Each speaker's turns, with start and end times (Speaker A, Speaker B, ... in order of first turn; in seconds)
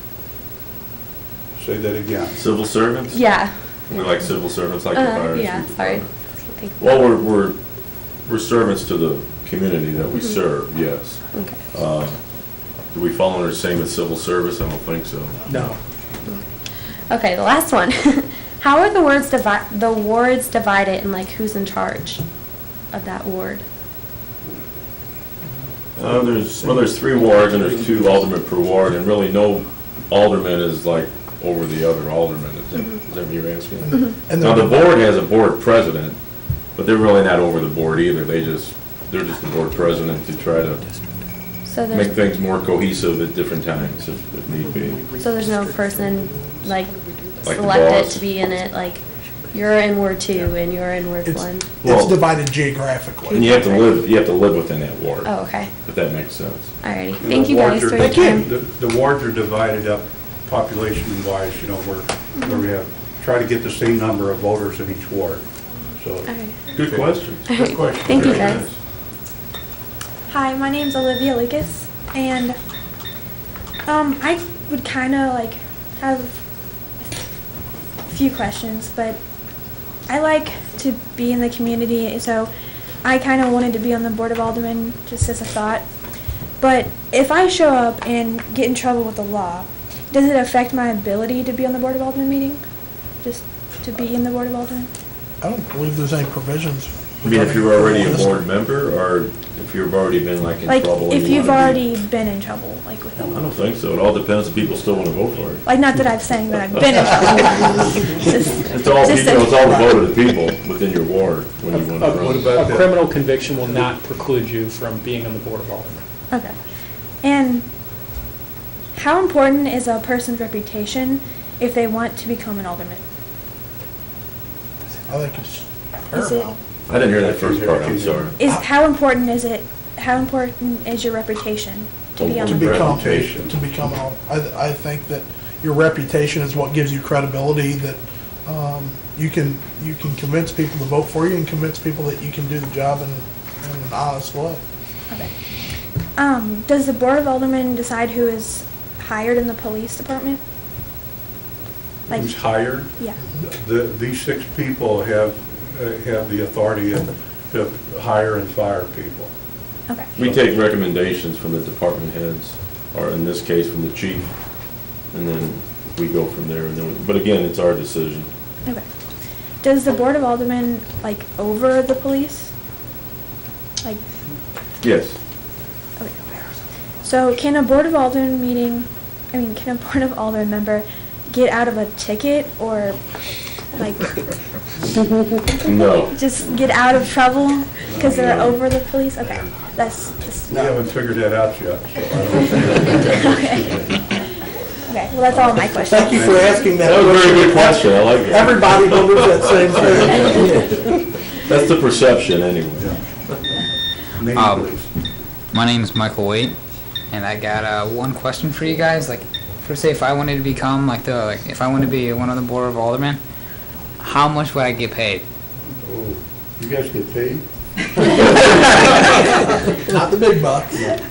Speaker A: 1.5-2.4, 39.7-41.2, 44.5-50.8, 57.2-65.4, 66.0-66.3, 66.8-67.1, 67.7-68.5, 112.3-113.0, 127.1-128.3, 132.7-133.5, 152.1-159.3, 160.2-160.6, 187.8-188.2, 189.2-189.5, 190.5-194.0, 195.3-198.5, 204.2-204.9, 215.8-217.4
Speaker B: 2.3-3.2, 3.9-6.1, 6.8-7.6, 8.2-12.2, 12.9-15.6, 26.0-36.2, 36.7-40.8, 41.9-45.1, 47.4-48.3, 51.8-52.2, 53.3-56.8, 66.7-68.8, 97.2-101.8, 103.3-105.6, 108.7-112.6, 126.9-128.4, 132.2-133.3, 160.2-164.3, 165.1-168.3, 174.8-175.2, 185.6-186.1, 188.0-188.6, 196.8-199.0, 201.3-202.9
Speaker C: 3.1-4.0, 4.9-7.1, 10.1-10.4, 11.3-11.6, 17.1-22.2, 22.9-23.6, 32.7-33.0, 41.6-42.1, 45.2-46.9, 47.5-51.7, 53.3-54.0, 55.2-55.8, 56.8-58.5, 66.3-66.7, 67.5-68.6
Speaker D: 15.5-15.8, 111.9-116.0
Speaker E: 33.8-34.9, 51.2-53.7, 58.0-58.4, 95.4-98.4, 125.1-126.6, 132.4-144.6, 190.5-190.8, 195.8-200.8, 219.3-220.9
Speaker F: 70.3-72.6, 73.8-76.4, 78.1-79.2, 80.1-82.5, 83.0-85.8, 86.6-92.6, 93.2-94.9, 100.7-103.4, 105.6-109.9, 116.3-116.6, 117.2-117.7, 118.9-123.0, 126.1-126.5, 128.4-132.9, 146.2-150.4, 152.1-153.2, 169.6-172.5, 176.0-176.2, 177.0-183.0, 183.8-184.2, 185.9-190.6, 193.1-193.6, 194.9-196.5
Speaker G: 204.3-204.7, 205.5-206.6, 207.1-213.2, 214.0-215.2